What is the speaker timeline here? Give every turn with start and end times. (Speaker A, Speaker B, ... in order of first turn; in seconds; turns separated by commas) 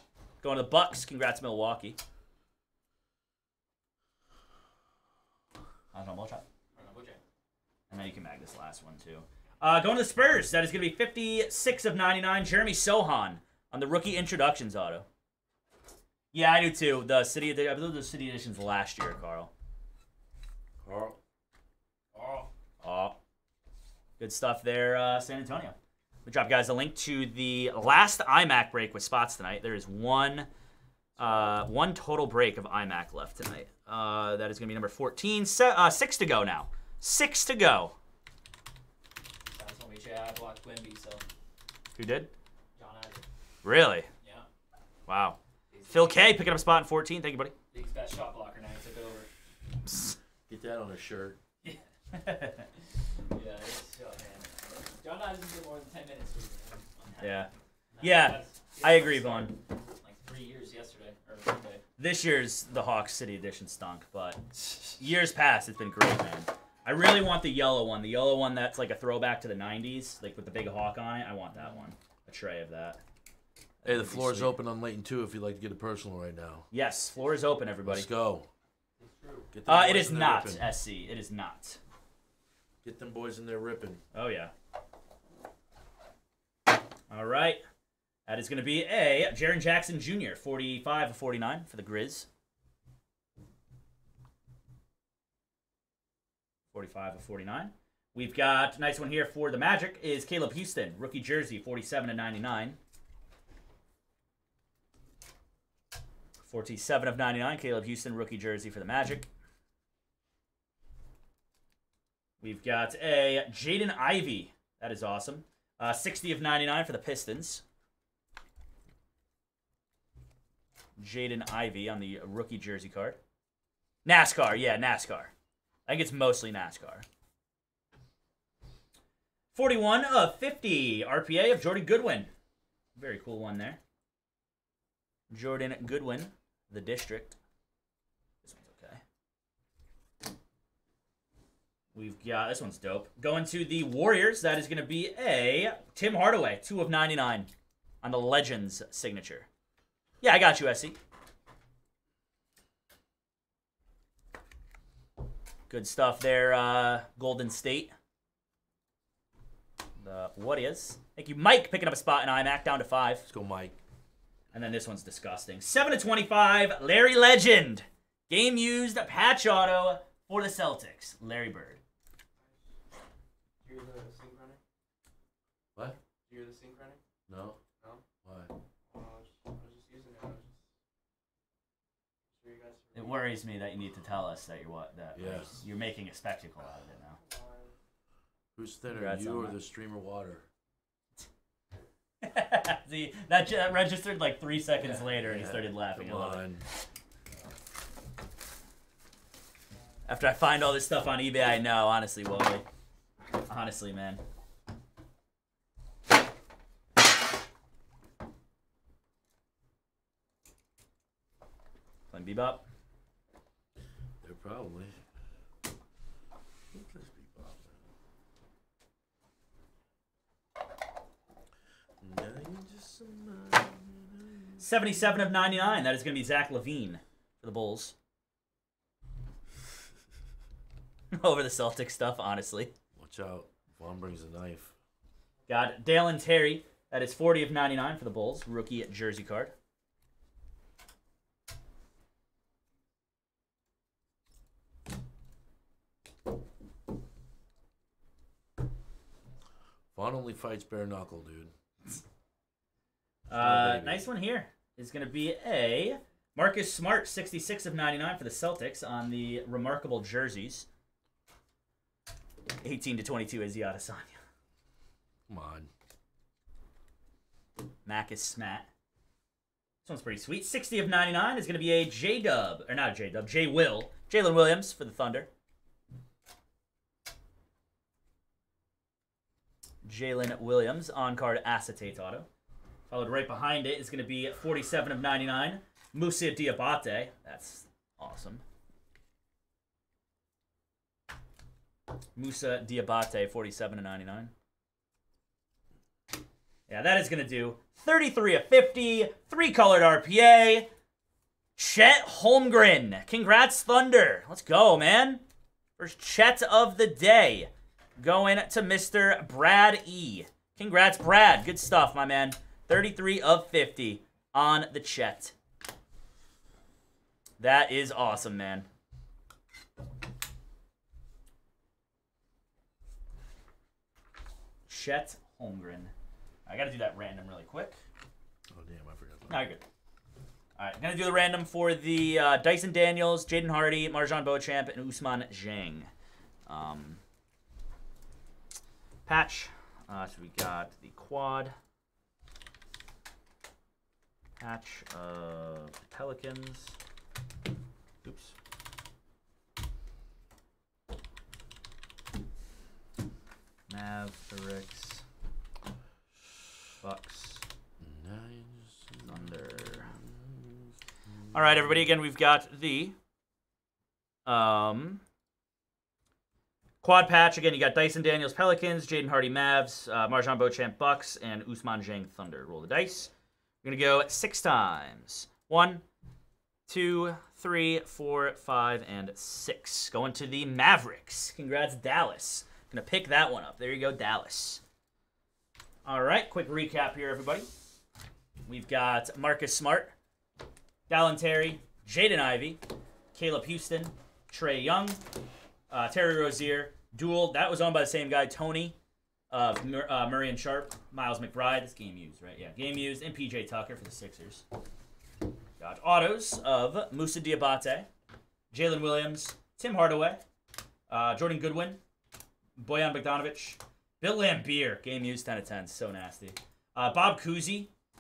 Speaker A: 0.4-2.0, Speaker A: 5.9-6.4, Speaker B: 6.8-7.2, Speaker A: 7.9-15.1, Speaker A: 16.3-19.5, Speaker C: 20.8-21.2, Speaker B: 22.2-22.4, Speaker A: 22.8-23.2, Speaker A: 24.2-30.5, Speaker C: 31.2-31.6, Speaker A: 31.2-38.0, Speaker B: 39.5-41.2, Speaker A: 42.0-42.3, Speaker B: 42.8-43.2, Speaker A: 43.6-44.1, Speaker A: 45.1-45.4, Speaker B: 45.7-46.3, Speaker A: 45.9-47.5, Speaker B: 47.7-49.3, Speaker C: 50.5-51.4, Speaker A: 52.1-52.7, Speaker B: 53.3-57.3, Speaker A: 57.2-59.6, Speaker B: 58.0-61.8, Speaker A: 62.0-73.0, Speaker A: 73.8-74.6, Speaker C: 73.8-76.7, Speaker A: 76.7-78.1, Speaker C: 77.8-78.5, Speaker D: 79.0-79.5, Speaker C: 79.5-80.7, Speaker A: 79.7-81.8, Speaker C: 82.8-84.0, Speaker A: 84.1-84.5, Speaker A: 87.1-87.6, Speaker A: 88.3-92.3, Speaker A: 96.7-102.8, Speaker A: 106.4-109.3, Speaker A: 112.4-117.6, Speaker A: 121.0-123.2, Speaker A: 124.0-125.3, Speaker A: 125.9-127.0, Speaker A: 129.5-132.3, Speaker A: 133.0-133.8, Speaker A: 135.3-137.4, Speaker A: 138.4-139.0, Speaker A: 141.9-147.5, Speaker A: 148.0-149.5, Speaker A: 150.2-151.0, Speaker A: 155.7-157.9, Speaker A: 160.0-163.3, Speaker C: 163.3-163.8, Speaker A: 164.5-171.8, Speaker D: 173.6-174.6, Speaker C: 175.8-176.0, Speaker D: 176.3-177.0, Speaker C: 177.3-177.6, Speaker C: 178.2-178.5, Speaker D: 178.9-180.6, Speaker D: 182.3-183.2, Speaker A: 182.9-187.2, Speaker C: 185.2-185.5, Speaker D: 187.2-187.7, Speaker C: 188.6-190.4, Speaker A: 188.9-189.6, Speaker A: 192.2-196.5, Speaker C: 194.8-196.7, Speaker A: 200.1-202.7, Speaker A: 203.5-204.2, Speaker A: 212.1-212.7, Speaker C: 214.2-215.0, Speaker C: 216.7-217.8, Speaker C: 222.0-224.6, Speaker A: 224.6-227.9, Speaker A: 231.1-232.7, Speaker C: 233.0-234.8, Speaker A: 235.5-239.5, Speaker C: 249.9-251.5, Speaker A: 253.3-260.7, Speaker C: 253.3-254.1, Speaker A: 262.6-264.2, Speaker C: 265.3-265.7, Speaker A: 267.9-268.7, Speaker A: 269.8-275.3, Speaker A: 279.8-282.3, Speaker A: 282.9-288.4, Speaker A: 292.2-294.3, Speaker A: 296.7-300.7, Speaker A: 301.6-305.2, Speaker A: 305.8-315.3, Speaker A: 317.4-318.7, Speaker A: 324.7-325.9, Speaker A: 326.5-327.8, Speaker C: 328.5-329.4, Speaker A: 329.3-329.6, Speaker A: 330.6-335.9, Speaker A: 336.5-337.0, Speaker A: 339.1-341.6, Speaker A: 344.4-346.8, Speaker A: 348.0-348.4, Speaker A: 353.7-355.1, Speaker A: 356.8-357.4, Speaker C: 357.8-360.7, Speaker A: 359.0-359.9, Speaker A: 361.3-362.9, Speaker A: 364.3-365.0, Speaker A: 366.8-375.8, Speaker A: 376.7-384.6, Speaker A: 385.9-387.5, Speaker A: 388.5-389.9, Speaker A: 390.9-392.6, Speaker A: 393.1-395.0, Speaker A: 395.7-398.8, Speaker A: 399.3-404.4, Speaker A: 405.6-407.9, Speaker A: 408.5-410.2, Speaker A: 410.9-411.8, Speaker A: 412.6-417.7